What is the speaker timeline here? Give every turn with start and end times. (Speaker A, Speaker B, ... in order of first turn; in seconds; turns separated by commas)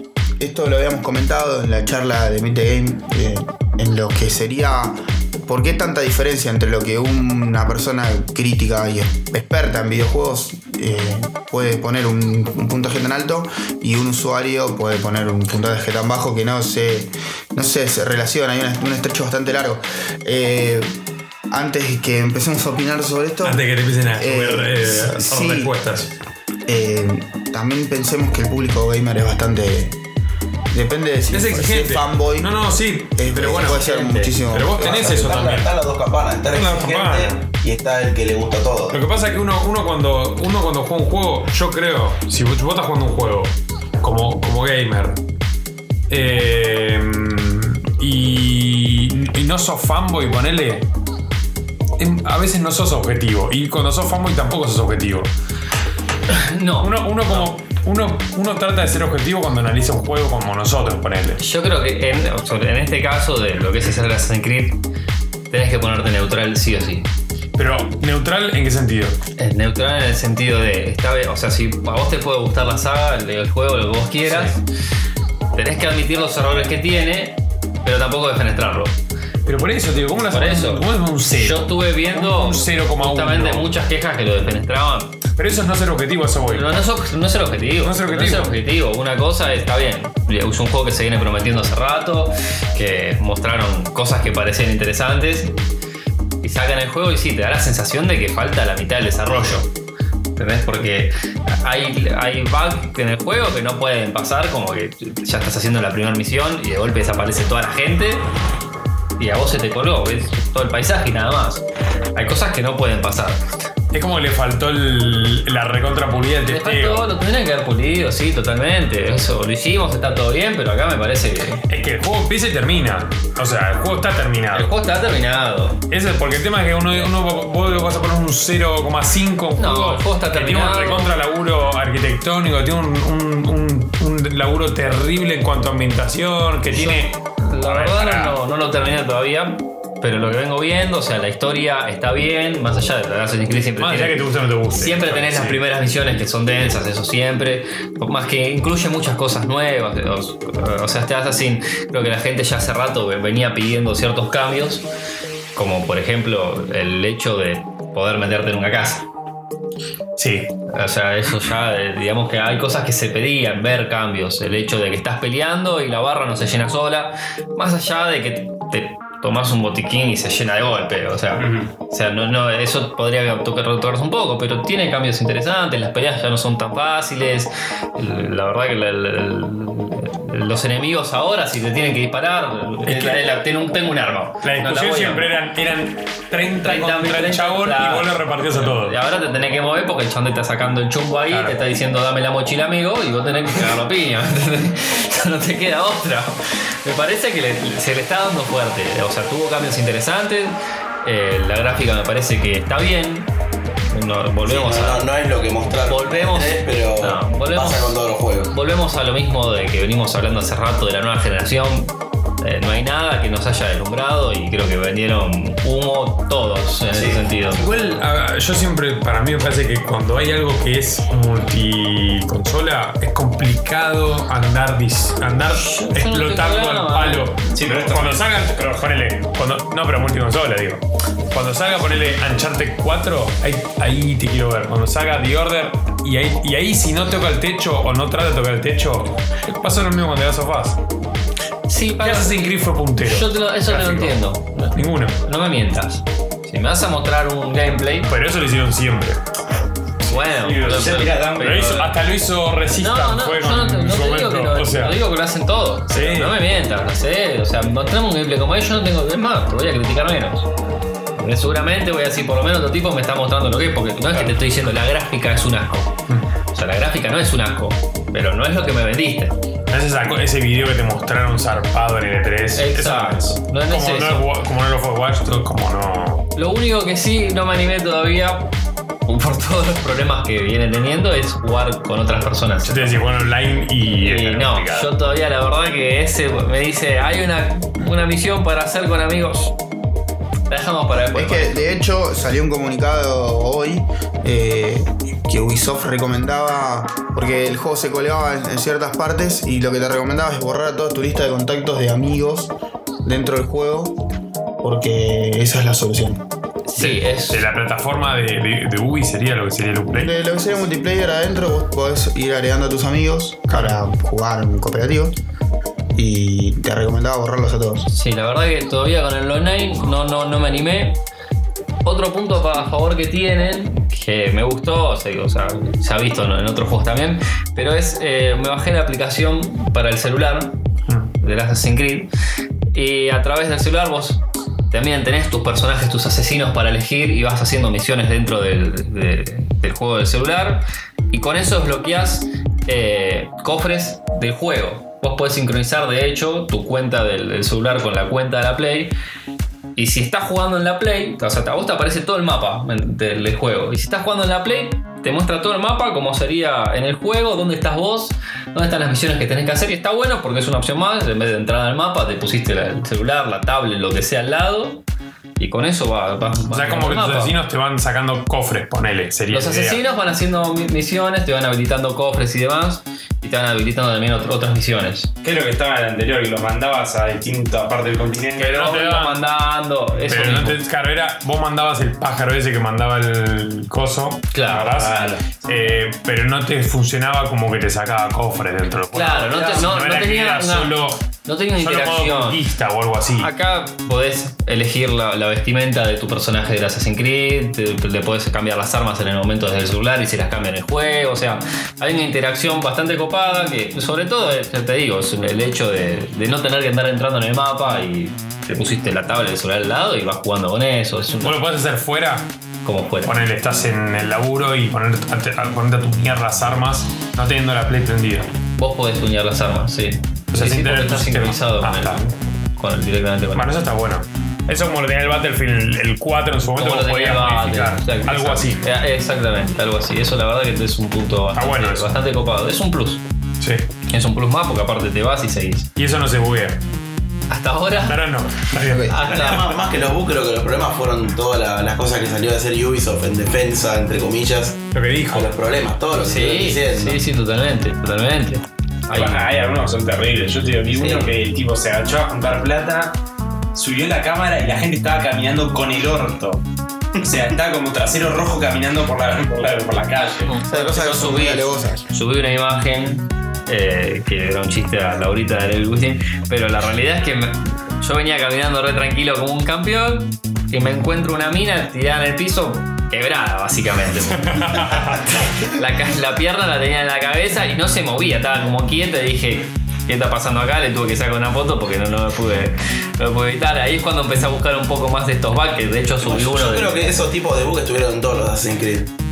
Speaker A: 0.4-21.0, Speaker A: 21.5-25.7, Speaker B: 23.4-26.1, Speaker A: 26.7-30.0, Speaker A: 30.7-32.5, Speaker B: 31.3-33.8, Speaker A: 33.1-35.1, Speaker C: 33.5-34.3, Speaker B: 34.5-35.7, Speaker D: 34.8-39.0, Speaker B: 36.5-37.4, Speaker B: 38.9-45.2, Speaker B: 46.1-50.9, Speaker B: 52.0-55.3, Speaker C: 56.3-57.5, Speaker B: 56.8-61.4, Speaker C: 61.4-64.8, Speaker C: 65.5-67.1, Speaker B: 67.6-69.2, Speaker C: 69.4-74.6, Speaker B: 74.2-74.6, Speaker C: 75.5-78.9, Speaker B: 79.5-83.8, Speaker C: 80.3-85.2, Speaker B: 85.4-86.9, Speaker C: 86.5-95.5, Speaker B: 87.8-88.5, Speaker C: 96.4-99.7, Speaker C: 100.3-108.2, Speaker C: 109.2-111.6, Speaker C: 112.1-113.4, Speaker B: 113.9-117.1, Speaker C: 116.5-121.6, Speaker B: 121.7-124.7, Speaker C: 124.5-125.8, Speaker B: 125.9-138.4, Speaker C: 129.6-131.1, Speaker C: 136.7-144.2, Speaker B: 143.8-145.6, Speaker C: 144.7-154.8, Speaker C: 155.5-159.1, Speaker B: 160.2-160.5, Speaker C: 160.7-185.3, Speaker E: 171.3-171.7, Speaker B: 182.8-183.3, Speaker B: 184.4-189.0, Speaker C: 186.6-203.3, Speaker B: 191.3-191.6, Speaker C: 203.9-205.1, Speaker D: 204.4-208.5, Speaker C: 205.8-218.0, Speaker D: 216.9-217.3, Speaker B: 217.5-240.8, Speaker C: 225.4-227.3, Speaker E: 227.5-228.9, Speaker C: 241.7-248.1, Speaker B: 242.0-245.2, Speaker B: 248.1-249.2, Speaker C: 250.1-251.9, Speaker E: 250.3-251.8, Speaker B: 250.6-255.0, Speaker C: 252.8-260.5, Speaker B: 255.9-256.4, Speaker C: 261.2-265.9, Speaker B: 264.1-264.4, Speaker C: 266.5-269.4, Speaker B: 269.7-276.3, Speaker C: 272.6-274.2, Speaker C: 276.4-278.5, Speaker C: 279.1-283.0, Speaker B: 282.6-284.9, Speaker C: 284.0-289.5, Speaker C: 290.5-291.8, Speaker A: 291.1-302.5, Speaker A: 303.0-304.0, Speaker A: 304.6-306.2, Speaker C: 306.7-307.4, Speaker B: 306.8-310.1, Speaker A: 309.9-315.1, Speaker B: 313.5-313.8, Speaker A: 315.9-317.9, Speaker C: 317.9-321.0, Speaker C: 321.8-330.6, Speaker C: 331.2-332.1, Speaker C: 332.7-348.9, Speaker C: 349.8-364.8, Speaker C: 365.4-367.3, Speaker B: 366.5-369.8, Speaker C: 369.3-375.1, Speaker E: 375.2-378.5, Speaker C: 378.4-380.6, Speaker B: 378.4-379.2, Speaker B: 380.0-393.3, Speaker C: 384.3-385.3, Speaker C: 388.9-392.4, Speaker C: 393.2-411.4, Speaker B: 411.2-412.3, Speaker C: 412.6-413.1, Speaker B: 413.0-418.3, Speaker C: 418.6-422.0, Speaker B: 420.3-422.1, Speaker C: 422.6-423.6, Speaker B: 423.3-428.6, Speaker C: 426.5-433.0, Speaker B: 431.3-431.9, Speaker B: 433.4-433.6, Speaker C: 433.9-435.7, Speaker B: 435.8-436.6, Speaker C: 437.3-438.0, Speaker B: 437.9-439.4, Speaker C: 438.9-439.6, Speaker D: 439.0-447.0, Speaker B: 444.7-445.3, Speaker C: 446.0-449.2, Speaker E: 448.9-453.0, Speaker D: 450.7-451.1, Speaker E: 453.5-456.4, Speaker E: 457.0-460.4, Speaker C: 460.2-486.9, Speaker A: 460.5-461.8, Speaker B: 474.2-475.3, Speaker D: 486.0-488.9